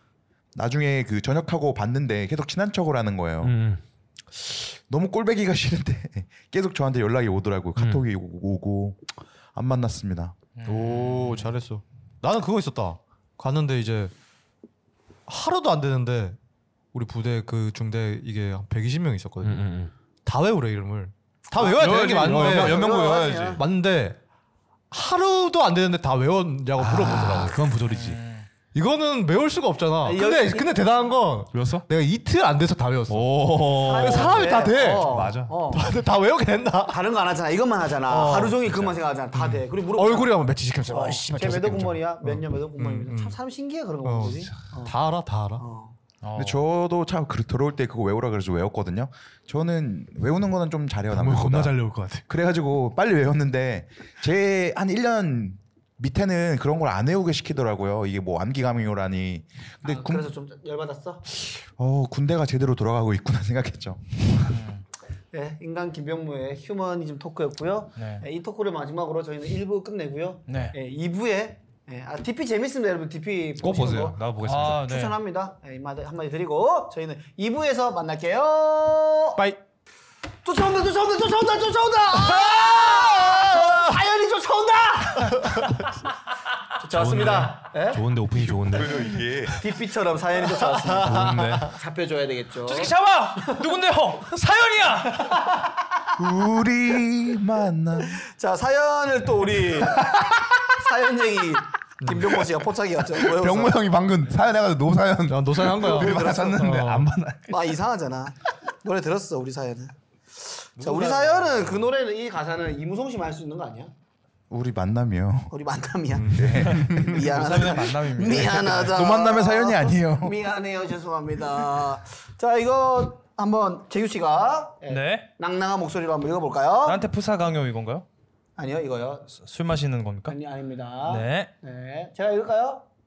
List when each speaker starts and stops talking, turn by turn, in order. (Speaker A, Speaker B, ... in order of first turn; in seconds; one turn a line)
Speaker A: 0.5-3.5
Speaker B: 3.4-3.8
Speaker A: 4.3-10.3
Speaker B: 7.8-8.0
Speaker C: 10.6-11.5
Speaker D: 10.6-14.1
Speaker D: 15.3-16.4
Speaker D: 16.9-19.6
Speaker B: 19.4-19.9
Speaker D: 20.2-24.2
Speaker B: 21.6-23.6
Speaker E: 21.6-23.6
Speaker D: 24.9-27.6
Speaker B: 26.8-28.2
Speaker C: 27.9-28.5
Speaker D: 28.7-37.0
Speaker E: 30.0-30.9
Speaker B: 31.5-31.9
Speaker B: 33.1-35.5
Speaker E: 33.8-35.9
Speaker E: 36.9-40.4
Speaker D: 38.1-43.4
Speaker E: 40.9-44.9
Speaker D: 44.0-45.6
Speaker E: 45.6-46.0
Speaker C: 46.2-46.6
Speaker A: 46.3-51.7
Speaker B: 51.1-52.2
Speaker A: 52.3-60.3
Speaker E: 59.8-61.2
Speaker A: 61.4-64.0
Speaker C: 64.5-64.8
Speaker E: 65.3-79.4
Speaker C: 68.0-68.2
Speaker C: 70.5-70.7
Speaker B: 73.6-74.8
Speaker C: 74.4-75.2
Speaker E: 80.4-85.8
Speaker E: 86.8-88.0
Speaker B: 86.9-89.5
Speaker A: 88.7-89.6
Speaker E: 89.6-92.9
Speaker D: 90.9-91.5
Speaker B: 90.9-91.8
Speaker C: 92.7-95.4
Speaker E: 95.1-95.7
Speaker A: 96.2-98.2
Speaker E: 98.1-103.8
Speaker D: 102.0-102.2
Speaker B: 103.1-107.6
Speaker D: 105.3-107.1
Speaker E: 105.9-106.7
Speaker E: 107.5-113.9
Speaker A: 114.5-115.5
Speaker E: 115.5-127.0
Speaker D: 116.1-116.7
Speaker A: 116.3-117.2
Speaker C: 117.0-118.9
Speaker A: 118.6-120.4
Speaker C: 124.9-125.3
Speaker C: 126.8-128.0
Speaker E: 128.6-129.3
Speaker C: 129.3-130.3
Speaker E: 130.3-132.8
Speaker C: 131.1-131.5